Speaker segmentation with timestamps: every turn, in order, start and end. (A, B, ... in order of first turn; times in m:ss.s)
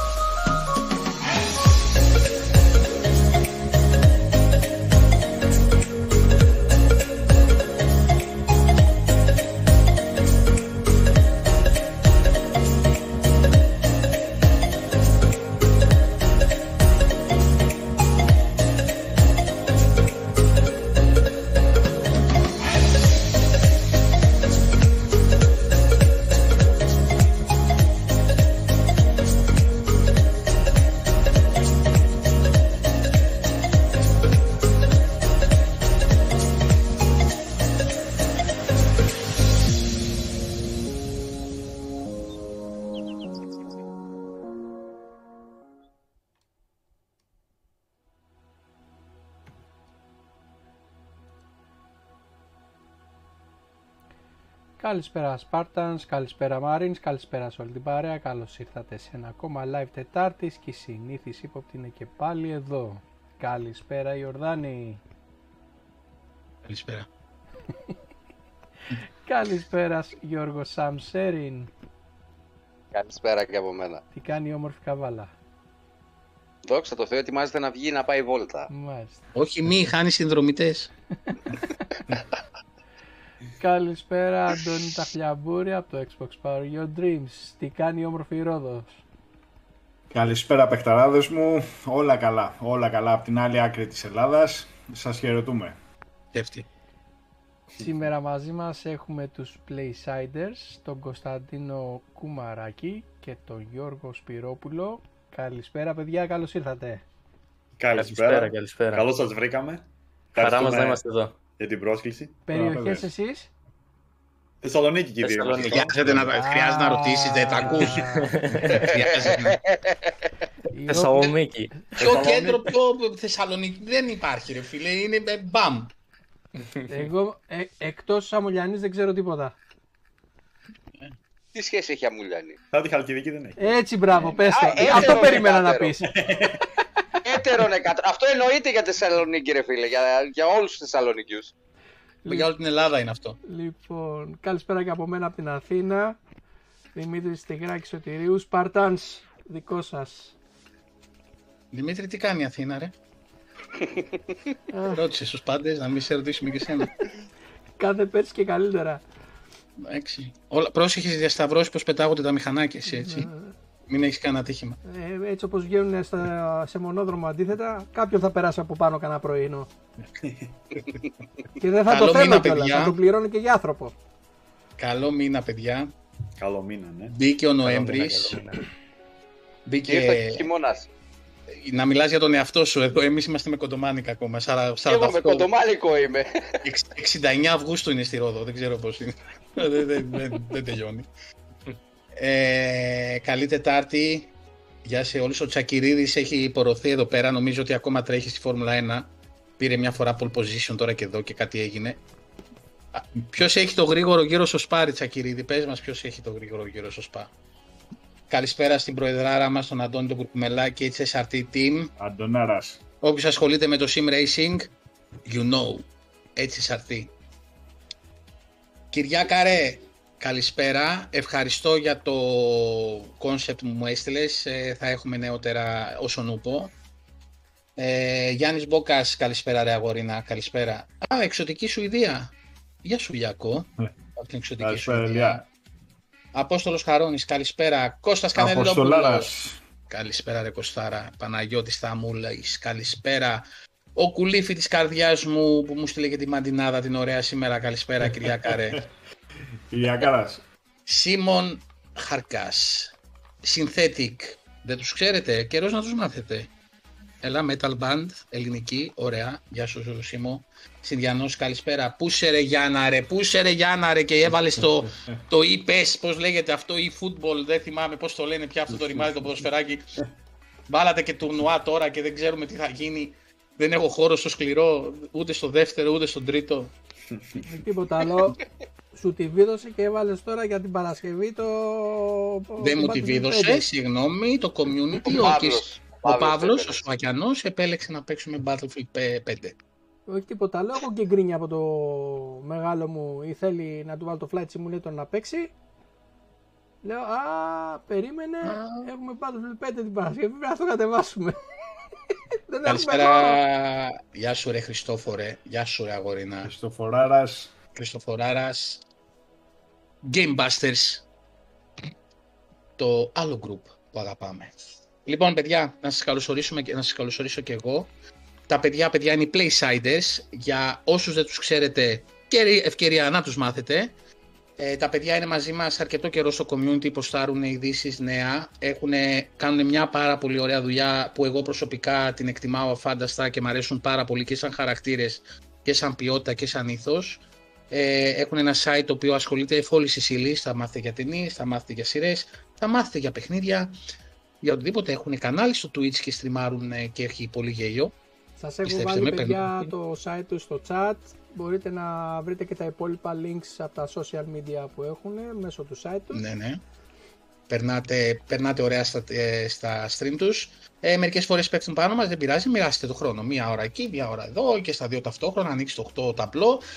0:54.8-1:05.0 A
1:06.6-1:07.1 B
1:09.2-1:11.7 A
1:12.9-1:14.0 C
1:14.1-1:15.3 A
1:16.6-1:18.7 C
1:18.7-1:19.2 A
1:19.3-1:20.9 B
1:23.6-1:29.0 A
1:30.1-1:35.8 D
1:36.3-1:36.7 B
1:37.8-1:47.0 A
1:47.8-1:51.0 E
1:47.9-1:49.0 F
1:50.4-1:51.4 F
1:51.6-1:52.4 E
1:52.5-1:53.5 A
1:52.5-1:53.1 D
1:54.6-1:56.3 E
1:55.2-1:55.9 F
1:55.6-1:59.6 B
1:56.3-1:58.3 A
1:58.1-1:58.8 F
1:58.9-2:00.1 C
2:00.7-2:01.3 A
2:00.8-2:01.7 F
2:02.0-2:02.7 E
2:02.0-2:05.9 B
2:06.9-2:09.5 A
2:11.5-2:12.6 C
2:12.7-2:13.6 E
2:13.6-2:16.1 A
2:14.5-2:16.0 C
2:16.0-2:16.6 E
2:17.2-2:21.5 C
2:22.2-2:23.4 B
2:23.4-2:26.2 A
2:26.9-2:30.4 A
2:31.7-2:32.9 B
2:34.7-2:35.0 A
2:34.9-2:36.9 B
2:37.8-2:39.0 A
2:39.8-2:43.3 B
2:42.9-2:43.5 A
2:43.9-2:44.8 B
2:44.8-2:49.7 A
2:50.2-2:50.5 E
2:51.6-2:54.0 A
2:51.9-2:52.9 B
2:54.8-2:55.9 B
2:56.4-2:57.1 E
2:57.1-2:58.4 B
2:57.6-2:58.6 F
2:59.7-3:00.5 B
2:59.9-3:00.9 C
3:01.5-3:05.5 B
3:04.9-3:06.6 C
3:06.6-3:11.1 B
3:12.2-3:14.3 B
3:14.8-3:22.0 B
3:22.9-3:27.3 B
3:28.3-3:31.9 B
3:32.0-3:32.8 D
3:33.0-3:34.7 B
3:35.2-3:37.1 B
3:38.9-3:46.7 B
3:47.8-3:52.3 B
3:52.8-3:55.4 B
3:54.6-3:55.4 D
3:56.3-3:59.3 B
3:58.3-3:59.6 D
3:59.9-4:03.4 B
4:03.9-4:08.8 B
4:08.4-4:08.8 D
4:09.7-4:10.4 D
4:10.9-4:16.5 B
4:17.2-4:30.0 B
4:24.6-4:25.1 D
4:28.7-4:29.0 D
4:30.7-4:36.7 B
4:37.4-4:38.4 A
4:38.9-4:43.6 A
4:42.6-4:49.5 B
4:45.0-4:46.8 C
4:50.1-4:55.5 A
4:56.8-5:01.4 A
4:58.4-4:58.9 B
5:02.5-5:03.4 A
5:02.6-5:06.5 B
5:06.4-5:07.5 D
5:07.7-5:08.8 B
5:10.0-5:11.0 B
5:12.8-5:14.5 B
5:15.0-5:17.9 B
5:18.5-5:23.9 B
5:24.6-5:43.7 B
5:44.4-5:47.9 B
5:48.4-5:56.2 A
5:48.6-5:49.7 B
5:56.1-5:56.6 B
5:57.5-6:06.6 B